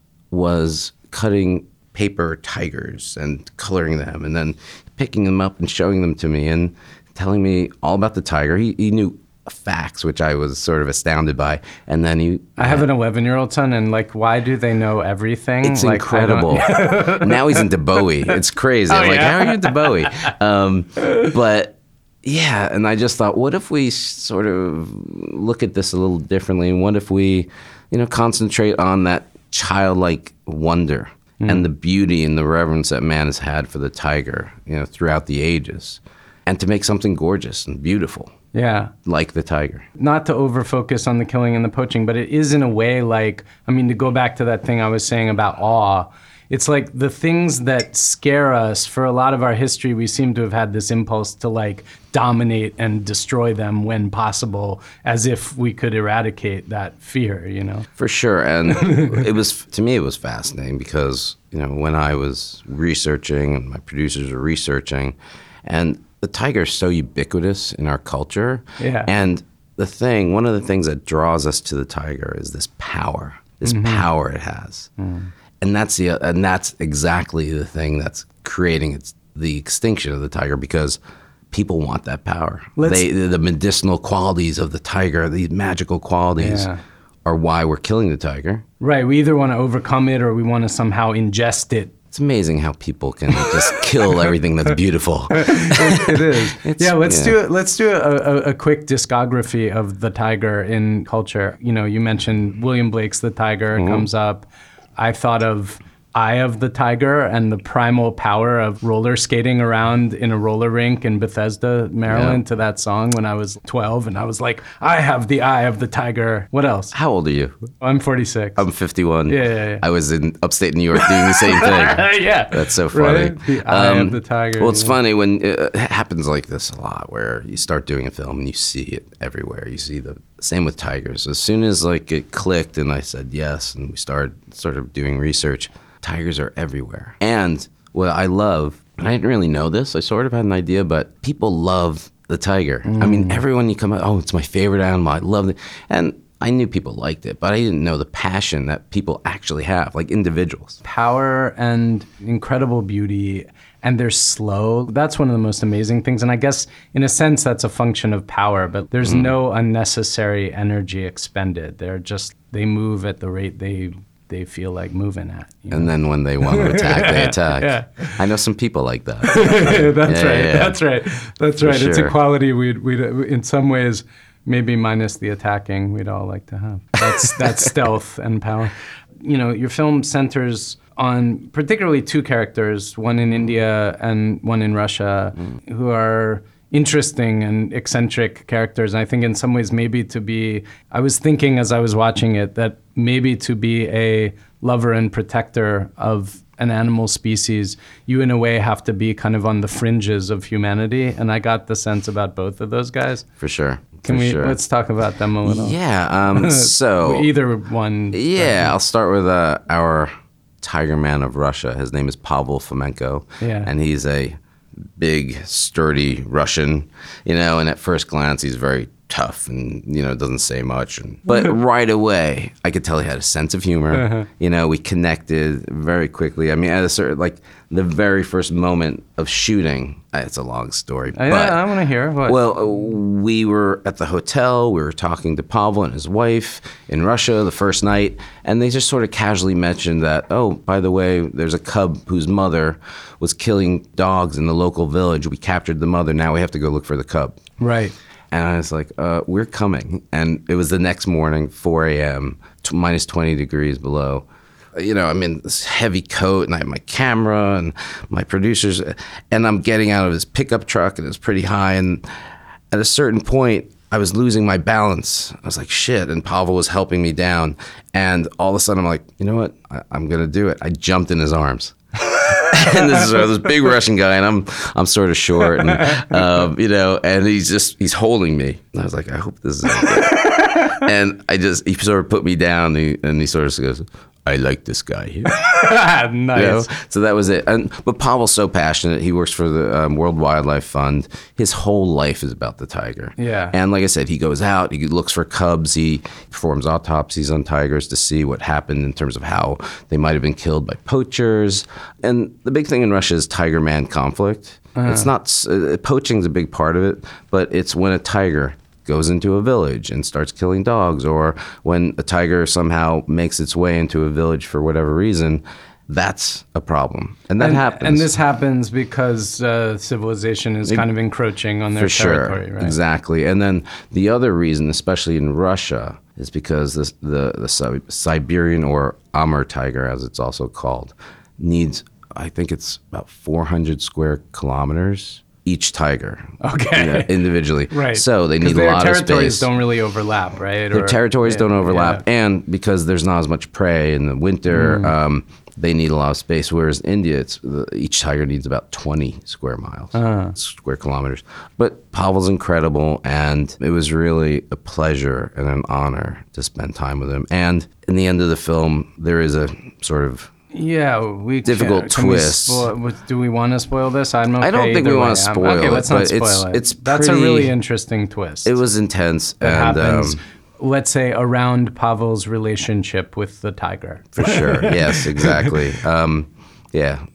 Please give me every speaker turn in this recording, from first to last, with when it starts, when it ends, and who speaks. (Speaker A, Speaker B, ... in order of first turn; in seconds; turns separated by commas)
Speaker A: 0.3-12.9, Speaker B: 12.6-17.6, Speaker A: 15.6-38.3, Speaker B: 18.9-20.3, Speaker B: 38.5-38.9, Speaker A: 39.0-39.9, Speaker B: 40.0-57.9, Speaker A: 58.0-74.9, Speaker B: 58.7-59.2, Speaker B: 68.8-69.1, Speaker B: 73.6-74.1, Speaker B: 75.0-75.3, Speaker A: 75.6-81.0, Speaker A: 81.5-86.7, Speaker B: 82.8-83.0, Speaker B: 86.4-86.8, Speaker A: 87.2-88.6, Speaker B: 88.8-91.9, Speaker A: 92.1-97.4, Speaker B: 95.3-104.5, Speaker A: 103.7-104.1, Speaker B: 105.0-116.9, Speaker A: 112.1-112.4, Speaker A: 116.9-117.7, Speaker B: 117.8-118.6, Speaker A: 118.6-150.8, Speaker B: 119.3-119.8, Speaker B: 121.0-124.9, Speaker B: 142.8-143.4, Speaker B: 150.8-165.9, Speaker A: 159.0-159.3, Speaker A: 165.7-170.8, Speaker B: 166.4-168.2, Speaker B: 169.2-203.2, Speaker A: 171.6-172.1, Speaker A: 177.4-177.7, Speaker A: 203.4-204.6, Speaker B: 204.0-205.8, Speaker A: 205.4-207.3, Speaker B: 206.3-208.7, Speaker A: 208.1-214.4, Speaker B: 213.4-213.7, Speaker A: 215.0-231.7, Speaker B: 223.9-224.3, Speaker B: 231.1-232.4, Speaker A: 232.2-247.4, Speaker B: 247.6-247.9, Speaker A: 248.3-262.1, Speaker A: 262.7-285.3, Speaker B: 275.8-276.0, Speaker B: 285.3-286.7, Speaker A: 286.3-318.1, Speaker B: 293.2-293.5, Speaker B: 304.7-305.1, Speaker B: 317.4-322.8, Speaker A: 321.7-339.5, Speaker B: 336.4-337.1, Speaker B: 337.7-342.0, Speaker A: 340.7-360.3, Speaker B: 344.5-344.9, Speaker B: 349.9-350.3, Speaker B: 360.5-368.6, Speaker A: 361.4-362.7, Speaker A: 364.4-367.5, Speaker A: 368.4-370.2, Speaker B: 369.4-375.5, Speaker A: 374.1-377.0